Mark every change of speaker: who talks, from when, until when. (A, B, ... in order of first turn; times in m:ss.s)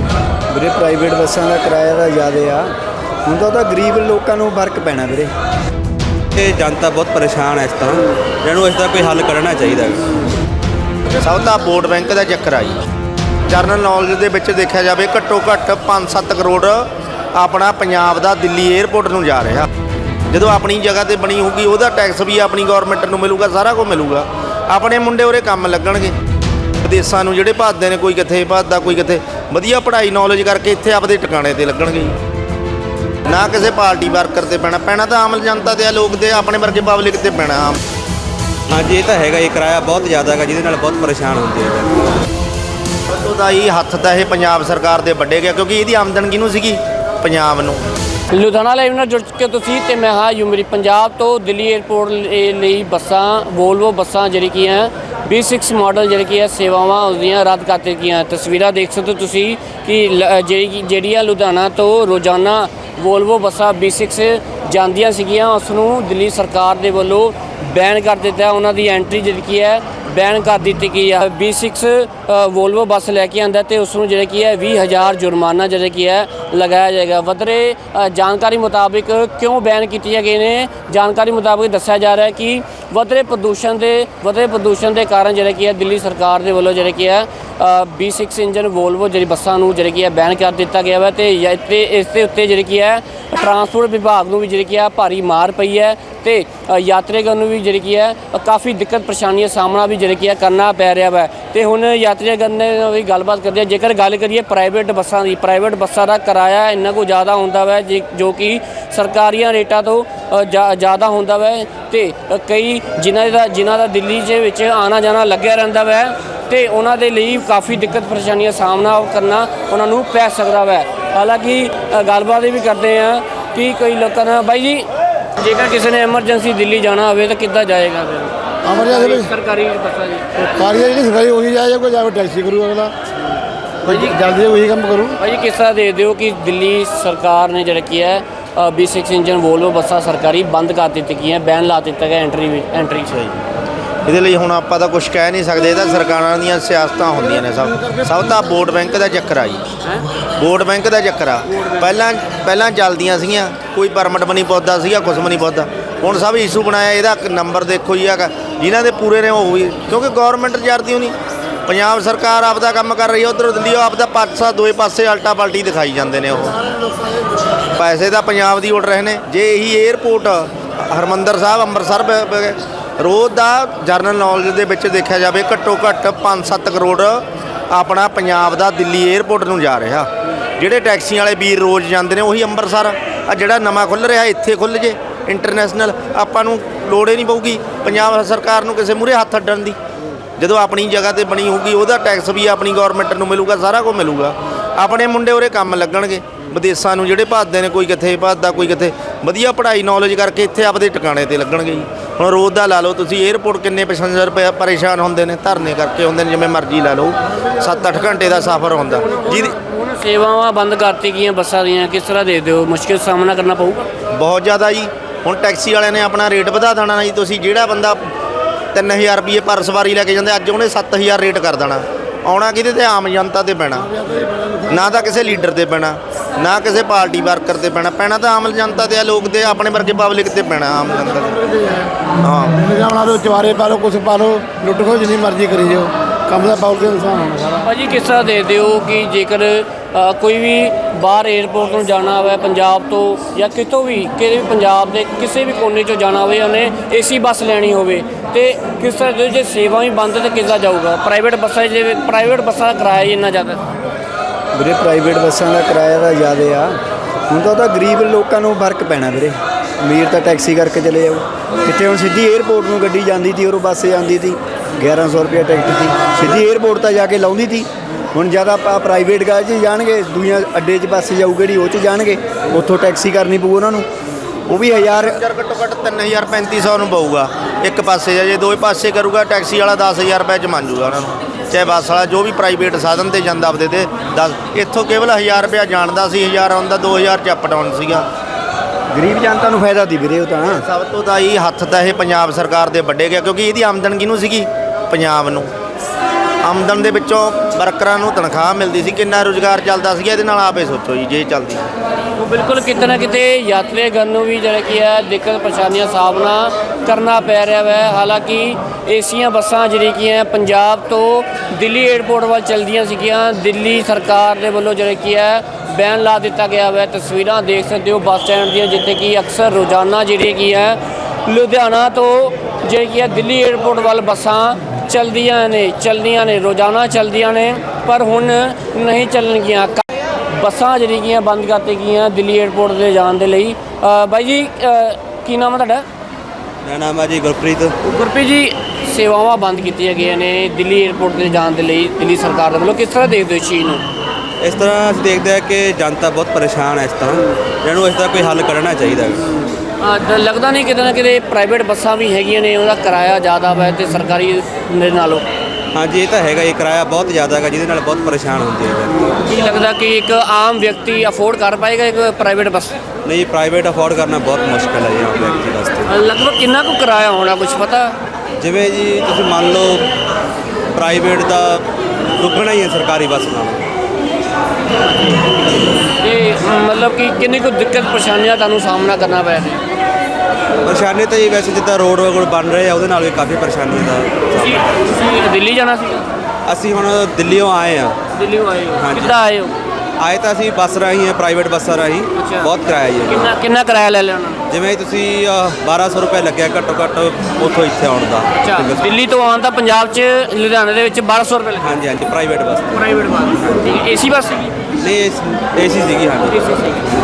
0:00.5-0:02.7 A
0:03.2-0:05.3 A
0:06.3-0:10.2 B
0:11.2-0:12.8 C
0:13.5-0:19.7 C
0:20.3-0:26.1 C
0:26.8-0:32.1 C
0:33.3-0:37.8 C
0:38.7-0:42.0 B
0:43.1-0:47.8 C
0:48.3-2:08.3 D
2:08.6-2:09.3 E
2:09.3-2:10.2 D
2:10.4-2:12.9 E
2:13.8-2:15.2 E
2:15.2-2:23.1 D
2:23.1-2:23.4 C
2:24.0-2:29.6 C
2:30.4-2:41.1 C
2:41.7-2:46.6 C
2:47.8-3:09.8 C
3:10.4-3:29.5 C
3:29.4-3:33.9 D
3:34.1-3:38.0 C
3:38.7-3:52.7 C
3:52.7-3:57.7 E
3:57.8-4:13.6 D
4:14.5-4:16.8 A
4:17.3-4:33.8 A
4:34.5-4:35.2 A
4:34.7-4:48.0 C
4:48.9-4:50.6 A
4:50.5-4:55.5 C
4:56.4-5:01.6 C
5:02.2-5:35.8 D
5:36.6-5:37.7 B
5:37.8-5:43.8 D
5:44.4-5:49.5 B
5:49.8-5:55.3 D
5:55.7-5:59.2 B
5:59.2-6:02.8 D
6:03.0-6:05.9 B
6:05.9-6:08.0 D
6:08.4-6:09.8 B
6:10.7-6:11.6 B
6:12.2-6:13.6 B
6:14.9-6:15.3 D
6:15.9-6:19.6 D
6:20.6-6:25.0 B
6:24.4-6:26.1 D
6:26.5-6:28.0 B
6:28.1-6:29.6 D
6:28.8-6:29.2 B
6:30.0-6:33.4 B
6:32.2-6:32.5 D
6:33.1-6:34.4 D
6:34.5-6:38.9 B
6:38.4-6:41.7 D
6:41.6-6:43.7 B
6:42.7-6:44.6 D
6:44.8-6:46.9 B